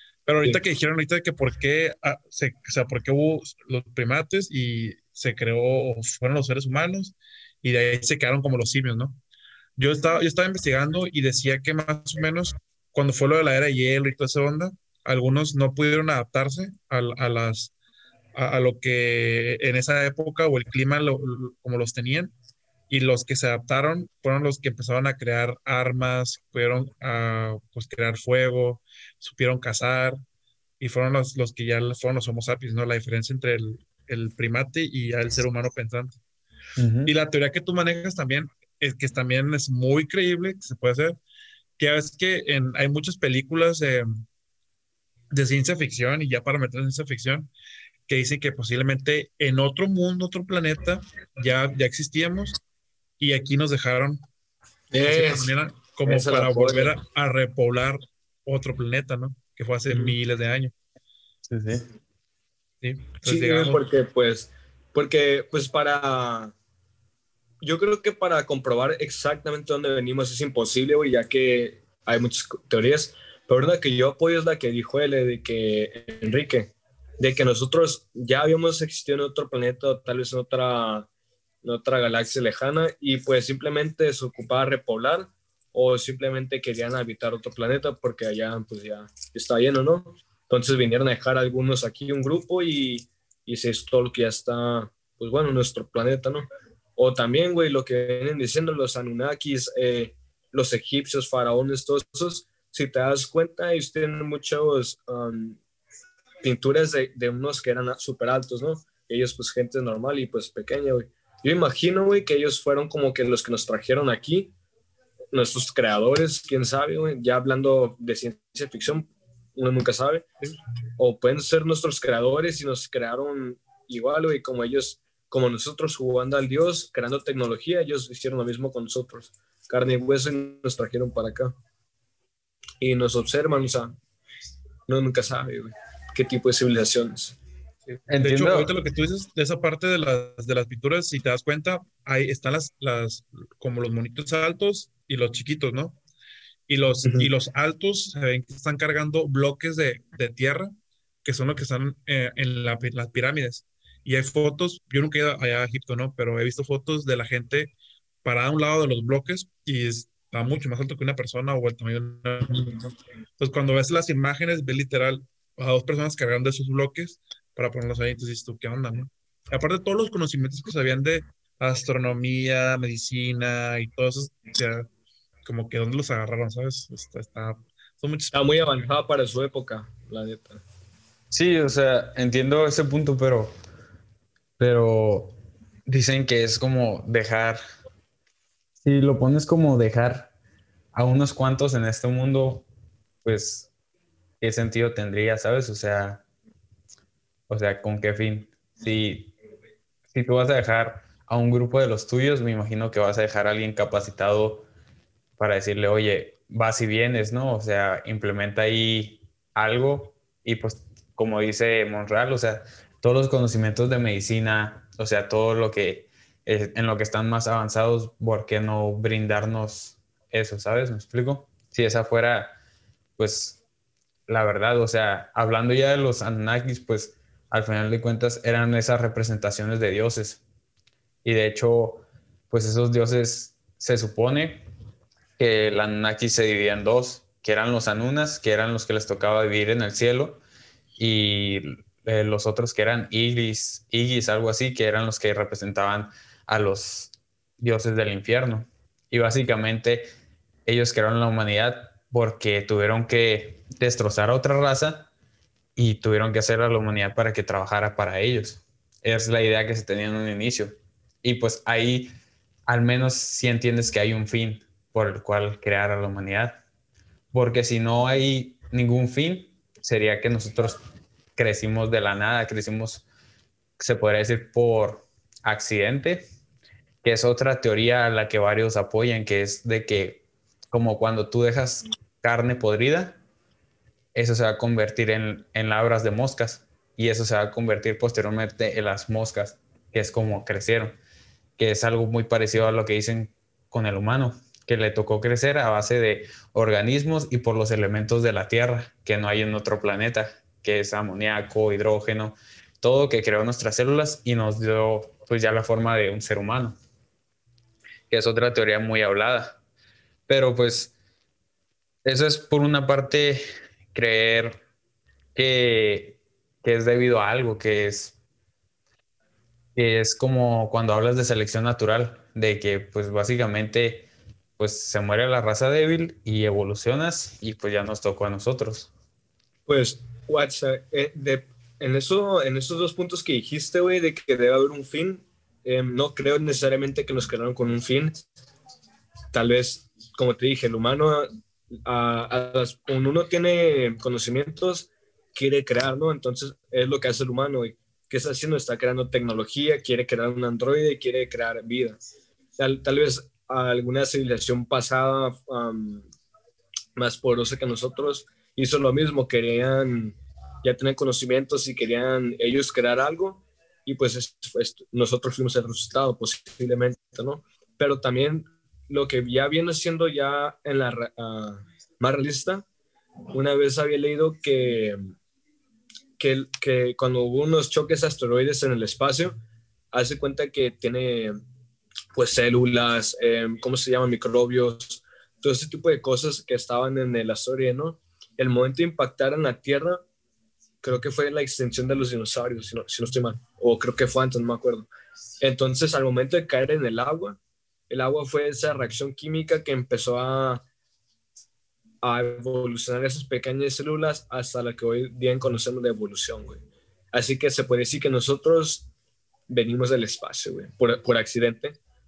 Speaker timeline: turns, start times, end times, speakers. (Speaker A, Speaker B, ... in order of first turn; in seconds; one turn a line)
Speaker A: 0.3-9.2
Speaker A: 9.8-17.7
Speaker A: 18.4-22.3
Speaker A: 22.9-30.2
Speaker A: 30.8-36.2
Speaker B: 36.8-37.1
Speaker A: 37.1-41.2
Speaker A: 41.8-44.1
Speaker A: 45.3-47.5
Speaker A: 48.1-52.6
Speaker A: 53.2-54.2
Speaker C: 54.9-55.5
Speaker A: 55.0-60.7
Speaker C: 56.1-56.9
Speaker B: 61.5-61.9
Speaker A: 62.8-63.8
Speaker C: 63.2-66.5
Speaker C: 67.6-81.1
Speaker C: 81.6-105.6
Speaker C: 106.4-114.5
Speaker C: 115.3-120.3
Speaker C: 121.0-131.6
Speaker C: 132.8-134.0
Speaker C: 134.9-137.4
Speaker A: 137.9-146.0
Speaker B: 138.1-138.7
Speaker A: 146.7-162.8
Speaker C: 147.0-147.3
Speaker A: 163.4-174.9
Speaker A: 175.4-178.8
Speaker C: 178.3-180.6
Speaker B: 181.3-183.6
Speaker B: 184.6-187.6
Speaker B: 188.8-190.3
Speaker B: 190.9-192.7
Speaker B: 193.2-193.7
Speaker B: 194.4-196.2
Speaker B: 197.5-199.3
Speaker B: 200.1-204.7
Speaker B: 205.4-222.6
Speaker B: 223.2-223.6
Speaker B: 224.3-230.4
Speaker B: 231.2-234.7
Speaker B: 235.4-240.4
Speaker B: 241.0-250.1
Speaker B: 250.7-255.1
Speaker B: 255.8-262.1
Speaker B: 262.7-266.6
Speaker B: 267.3-270.8
Speaker B: 271.4-273.0
Speaker B: 273.8-276.3
Speaker B: 277.0-283.2
Speaker B: 284.1-291.0
Speaker B: 291.6-306.8
Speaker B: 308.1-309.6
Speaker B: 310.3-310.9
Speaker B: 312.1-313.4
Speaker B: 313.9-314.6
Speaker B: 315.4-318.1
Speaker B: 319.8-328.9
Speaker C: 329.7-338.3
Speaker C: 339.3-341.3
Speaker C: 341.9-352.0
Speaker C: 352.6-356.1
Speaker C: 357.0-372.6
Speaker C: 373.3-375.0
Speaker C: 376.2-379.4
Speaker C: 379.9-381.4
Speaker C: 382.1-390.0
Speaker C: 390.8-394.9
Speaker C: 395.4-400.6
Speaker C: 402.0-406.6
Speaker C: 407.1-408.9
Speaker C: 409.5-411.8